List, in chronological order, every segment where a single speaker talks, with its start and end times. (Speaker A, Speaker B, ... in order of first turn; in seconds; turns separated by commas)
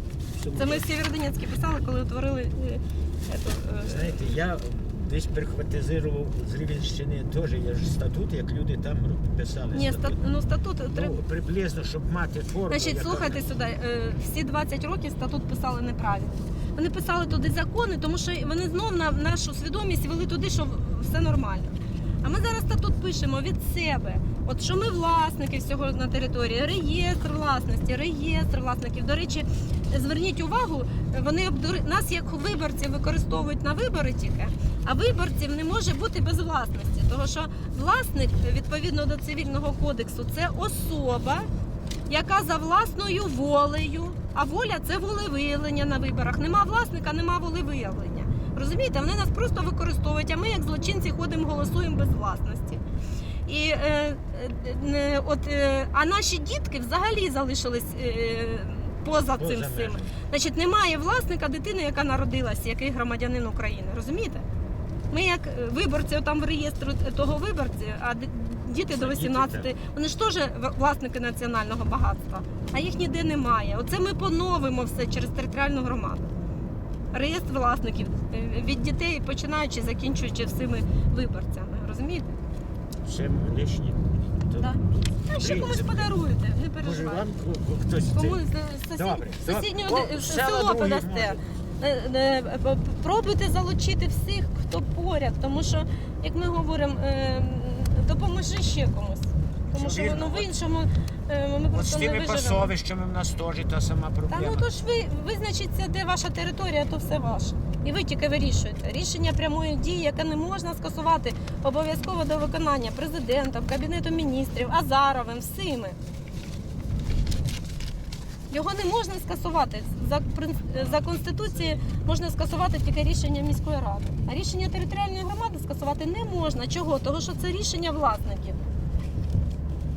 Speaker A: 0.5-4.2, Speaker B: 0.6-0.8, Speaker B: 3.8-10.2, Speaker A: 9.7-11.2, Speaker B: 10.8-13.4, Speaker A: 12.7-41.5, Speaker A: 42.1-52.8, Speaker A: 53.5-64.4, Speaker B: 59.3-60.1, Speaker A: 65.1-76.3, Speaker B: 68.9-69.7, Speaker A: 77.1-82.4, Speaker B: 83.0-86.2, Speaker A: 84.6-87.3, Speaker B: 86.8-88.4, Speaker A: 88.1-102.7, Speaker B: 88.9-91.4, Speaker B: 99.7-100.5, Speaker B: 101.7-104.7, Speaker A: 104.3-116.0, Speaker A: 118.5-128.6